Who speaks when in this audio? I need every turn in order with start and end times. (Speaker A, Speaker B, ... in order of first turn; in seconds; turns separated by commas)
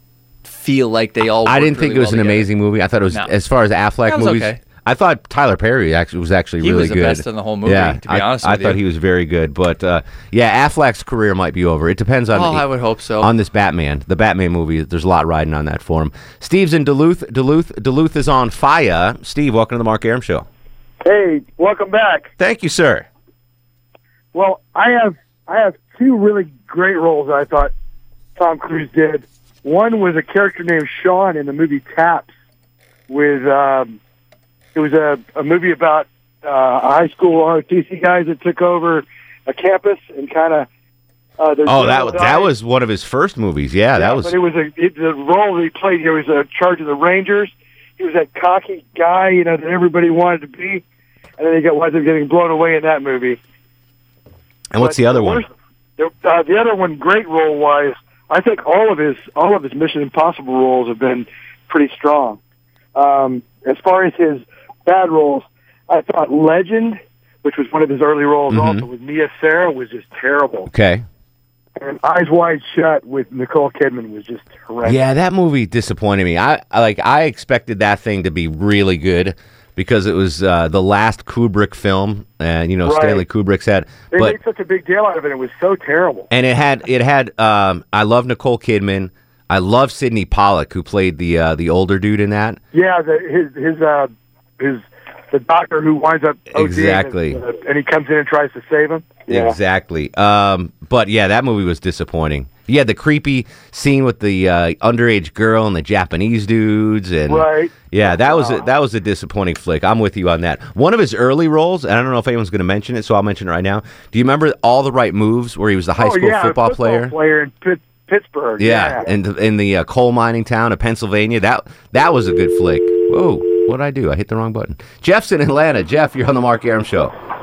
Speaker A: 0.4-2.5, Speaker B: 1.4-12.6, Speaker A: 4.0-4.6, Speaker A: 6.6-8.8, Speaker A: 12.3-13.3, Speaker B: 13.2-20.5, Speaker C: 21.0-22.3, Speaker B: 22.4-23.1, Speaker C: 24.3-27.7, Speaker C: 28.4-32.3, Speaker C: 33.1-34.0, Speaker C: 34.7-40.7, Speaker C: 41.4-42.5, Speaker B: 41.6-44.4, Speaker C: 43.9-50.8, Speaker C: 51.4-53.4, Speaker B: 54.7-55.5, Speaker C: 54.8-62.4, Speaker C: 63.0-70.7, Speaker B: 68.5-68.8, Speaker B: 70.7-71.0, Speaker C: 71.8-75.0, Speaker B: 74.8-84.3, Speaker C: 82.8-83.2, Speaker C: 84.1-86.3, Speaker B: 86.3-92.6, Speaker C: 92.7-99.6, Speaker B: 96.5-97.4, Speaker B: 99.3-117.1, Speaker C: 107.3-108.7, Speaker C: 116.0-119.1, Speaker B: 118.6-127.1